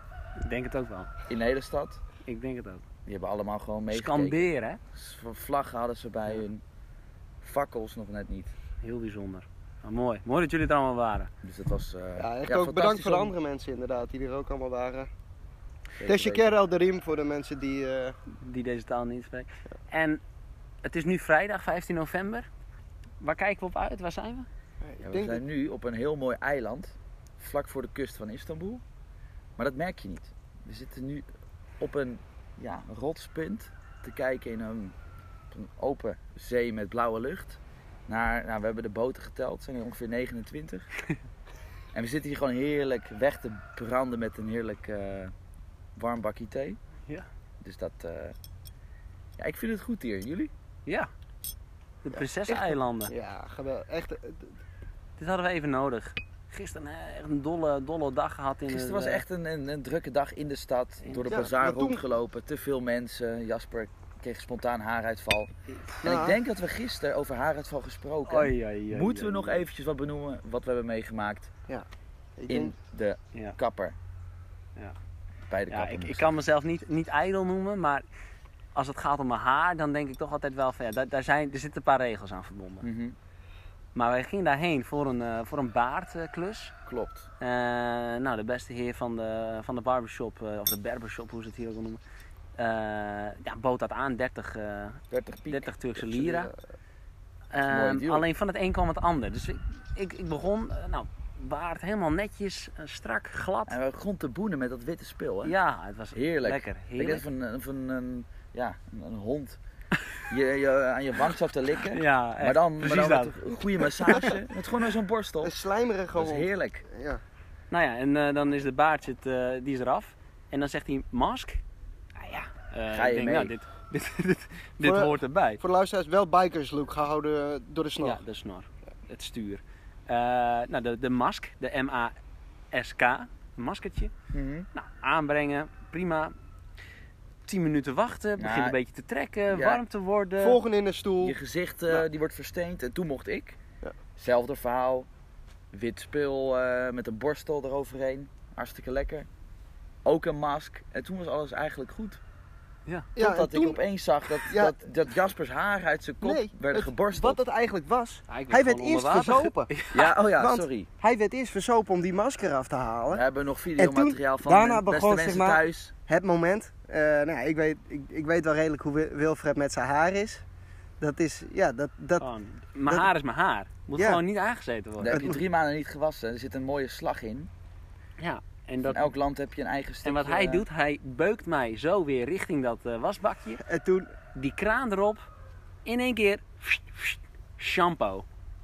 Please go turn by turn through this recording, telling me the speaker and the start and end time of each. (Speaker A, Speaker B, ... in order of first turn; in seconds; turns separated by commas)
Speaker A: 0.4-1.1, Speaker B: 1.3-2.0, Speaker A: 2.2-2.8, Speaker B: 3.0-6.6, Speaker A: 3.9-4.8, Speaker B: 7.4-8.5, Speaker A: 8.8-11.3, Speaker B: 11.4-13.3, Speaker C: 12.2-15.1, Speaker A: 16.0-16.5, Speaker C: 16.0-18.2, Speaker A: 18.3-20.2, Speaker A: 20.8-22.5, Speaker A: 23.2-24.5, Speaker C: 24.8-25.4, Speaker B: 25.0-28.8, Speaker B: 29.6-31.2, Speaker B: 31.8-34.9, Speaker B: 35.5-40.9, Speaker B: 41.9-45.3, Speaker B: 46.0-46.8, Speaker B: 47.6-48.3, Speaker B: 49.4-50.5, Speaker A: 52.0-53.1, Speaker C: 52.1-54.5, Speaker A: 55.2-59.2, Speaker B: 58.7-65.5, Speaker C: 61.2-62.0, Speaker B: 66.0-71.5, Speaker C: 66.0-66.4, Speaker A: 68.2-69.6, Speaker C: 72.4-72.7, Speaker B: 72.5-74.0, Speaker B: 75.5-76.3, Speaker A: 75.7-78.0, Speaker A: 78.7-82.9, Speaker B: 82.8-83.2, Speaker A: 83.9-86.7, Speaker B: 86.8-87.3, Speaker A: 87.4-92.0, Speaker A: 92.6-96.5, Speaker B: 95.1-96.5, Speaker A: 97.5-103.7, Speaker B: 97.6-98.2, Speaker B: 103.7-105.5, Speaker A: 105.4-107.2, Speaker B: 106.1-109.6, Speaker B: 110.3-115.5, Speaker A: 111.9-114.3, Speaker C: 115.4-117.2, Speaker B: 116.1-116.8, Speaker A: 117.7-121.6, Speaker A: 122.2-125.6, Speaker B: 122.9-123.5, Speaker C: 124.8-128.2, Speaker A: 128.0-132.2, Speaker A: 132.7-134.1, Speaker B: 134.3-134.7, Speaker A: 134.7-136.3, Speaker A: 137.5-140.6, Speaker B: 138.4-138.8, Speaker B: 139.5-139.8, Speaker C: 140.4-141.3, Speaker B: 141.2-143.6, Speaker B: 144.2-145.1, Speaker B: 145.7-149.3, Speaker B: 150.0-152.2, Speaker C: 153.2-153.8, Speaker B: 153.2-157.4, Speaker C: 154.4-154.8, Speaker C: 156.2-159.7, Speaker A: 158.3-160.1, Speaker B: 159.9-160.9, Speaker C: 160.4-163.2, Speaker B: 163.1-165.9, Speaker C: 163.8-170.4, Speaker C: 171.0-172.2, Speaker A: 172.2-175.3, Speaker B: 175.0-177.5, Speaker C: 175.1-175.4, Speaker A: 178.2-179.1, Speaker B: 178.8-180.7, Speaker A: 180.0-183.6, Speaker C: 183.6-184.1, Speaker A: 184.3-185.2, Speaker A: 185.8-188.2